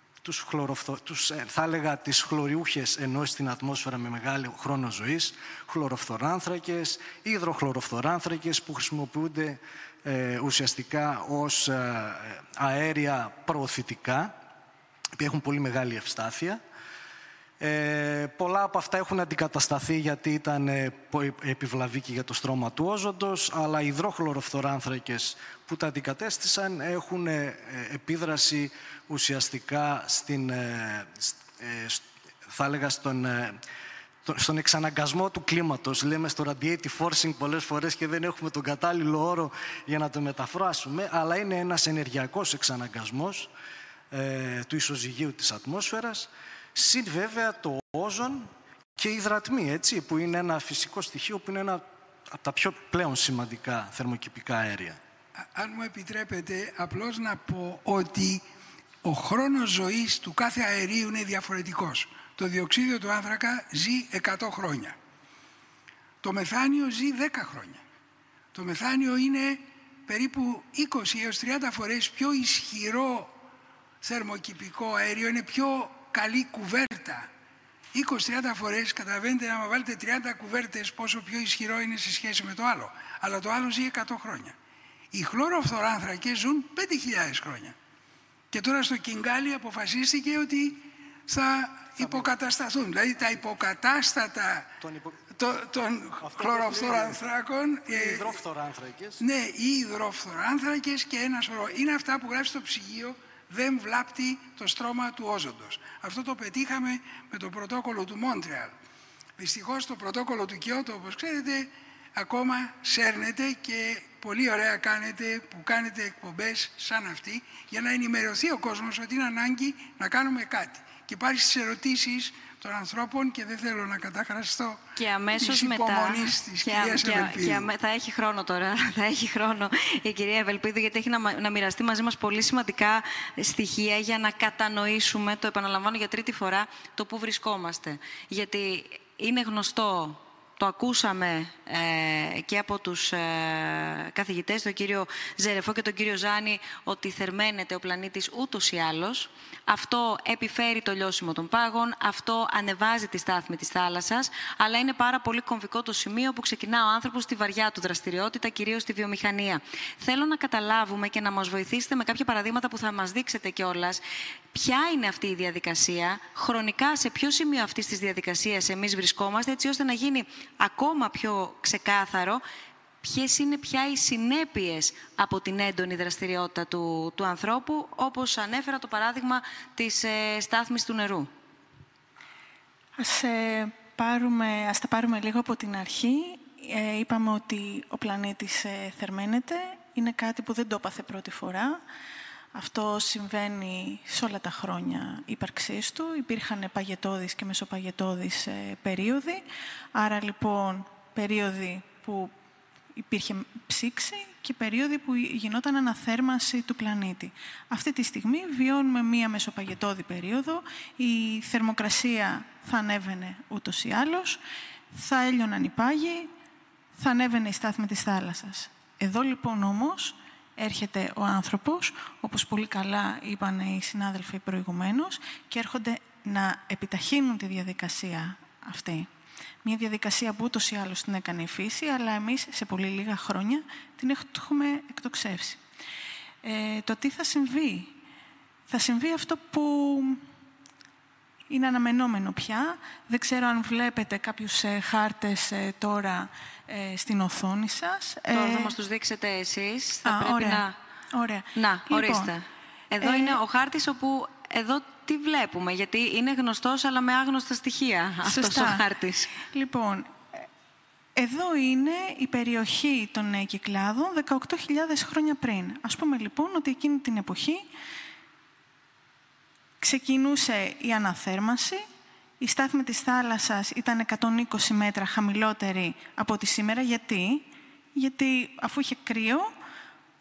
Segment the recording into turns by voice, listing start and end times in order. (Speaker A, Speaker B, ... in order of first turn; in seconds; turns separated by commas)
Speaker A: 0.2-14.4, Speaker A: 15.1-16.6, Speaker A: 17.6-33.6, Speaker A: 34.2-43.5, Speaker A: 44.1-55.0, Speaker B: 55.4-58.4, Speaker B: 59.0-65.0, Speaker B: 66.2-67.8, Speaker B: 68.5-73.4, Speaker B: 74.0-77.3, Speaker B: 77.9-84.5, Speaker B: 85.1-87.7, Speaker B: 88.5-94.7, Speaker A: 92.0-92.3, Speaker A: 93.2-93.4, Speaker A: 94.8-95.2, Speaker B: 95.3-98.3, Speaker A: 96.2-97.2, Speaker A: 97.8-99.2, Speaker B: 99.2-108.7, Speaker B: 109.4-127.7, Speaker C: 125.0-172.4, Speaker C: 173.0-181.3, Speaker D: 182.9-191.8, Speaker D: 192.5-199.4, Speaker D: 199.9-202.3, Speaker D: 202.9-214.4, Speaker D: 214.9-216.3, Speaker D: 217.0-229.1, Speaker D: 229.6-235.6, Speaker D: 236.4-237.9, Speaker D: 238.7-240.2, Speaker D: 241.5-248.7, Speaker C: 248.3-250.7, Speaker D: 250.0-252.3, Speaker C: 251.6-259.3, Speaker D: 253.0-253.4, Speaker D: 258.2-258.8, Speaker D: 259.4-260.2, Speaker D: 261.1-267.7, Speaker D: 269.8-271.9, Speaker D: 272.4-279.5